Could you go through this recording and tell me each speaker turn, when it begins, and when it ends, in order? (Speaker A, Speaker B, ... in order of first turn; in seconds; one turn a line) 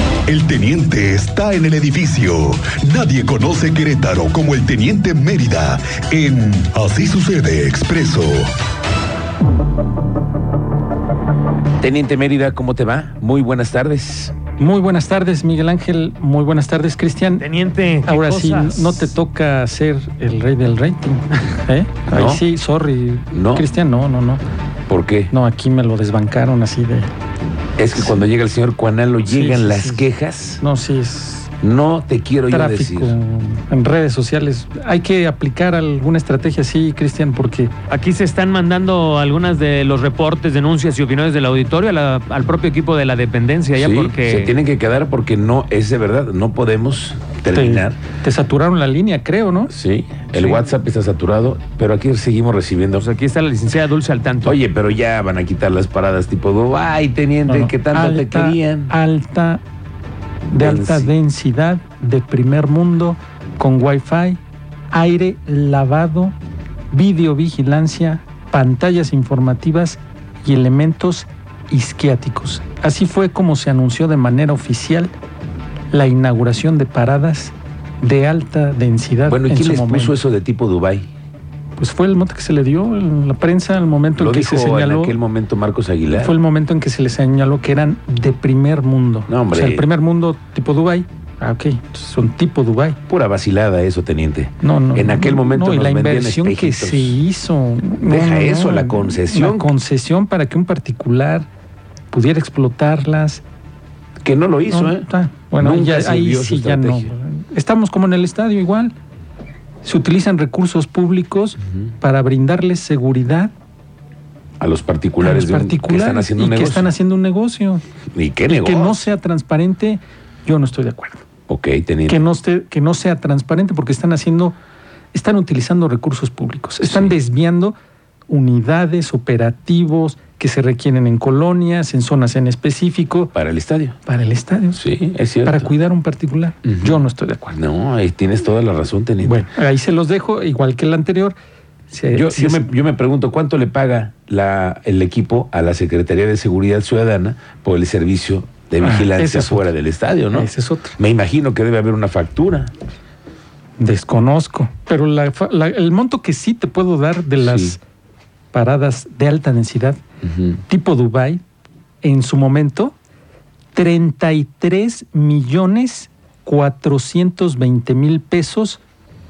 Speaker A: 0.3-8.5
Speaker B: 11.8-14.3
Speaker C: 14.6-17.5
Speaker D: 17.4-19.1
Speaker C: 18.1-24.4
Speaker B: 22.1-22.4
Speaker B: 23.3-23.7
Speaker B: 24.9-25.3
Speaker C: 25.3-27.1
Speaker B: 27.8-30.6
Speaker C: 27.9-28.2
Speaker C: 29.3-30.1
Speaker C: 30.6-31.5
Speaker B: 31.6-33.2
Speaker C: 32.5-37.7
Speaker D: 37.9-44.5
Speaker B: 43.8-48.0
Speaker C: 47.5-49.7
Speaker B: 49.7-53.1
Speaker C: 50.3-50.6
Speaker D: 53.0-54.6
Speaker B: 54.4-58.9
Speaker C: 57.5-59.6
Speaker C: 60.5-64.4
Speaker B: 60.6-61.1
Speaker C: 64.9-66.4
Speaker C: 66.9-75.1
Speaker C: 75.9-80.2
Speaker B: 79.3-81.1
Speaker C: 81.8-85.2
Speaker B: 84.2-86.4
Speaker C: 86.1-93.0
Speaker B: 89.3-89.9
Speaker B: 93.1-97.2
Speaker C: 94.6-101.5
Speaker B: 98.0-99.7
Speaker C: 102.1-103.4
Speaker B: 104.2-105.1
Speaker C: 104.7-109.0
Speaker B: 105.6-107.1
Speaker C: 109.8-113.5
Speaker B: 114.6-116.9
Speaker C: 115.2-117.8
Speaker B: 118.1-119.0
Speaker C: 118.5-121.2
Speaker B: 121.5-122.2
Speaker C: 122.1-124.6
Speaker C: 125.1-127.8
Speaker B: 126.8-127.1
Speaker C: 128.3-133.3
Speaker B: 133.3-134.0
Speaker C: 134.1-134.8
Speaker B: 134.8-135.7
Speaker C: 135.4-137.6
Speaker B: 136.7-136.9
Speaker B: 137.5-139.5
Speaker C: 139.2-141.4
Speaker C: 141.9-142.7
Speaker B: 142.1-152.7
Speaker C: 148.8-149.7
Speaker C: 150.3-151.0
Speaker C: 153.8-157.8
Speaker B: 157.4-157.8
Speaker C: 158.5-160.0
Speaker C: 160.7-161.4
Speaker C: 162.0-163.0
Speaker C: 163.7-168.8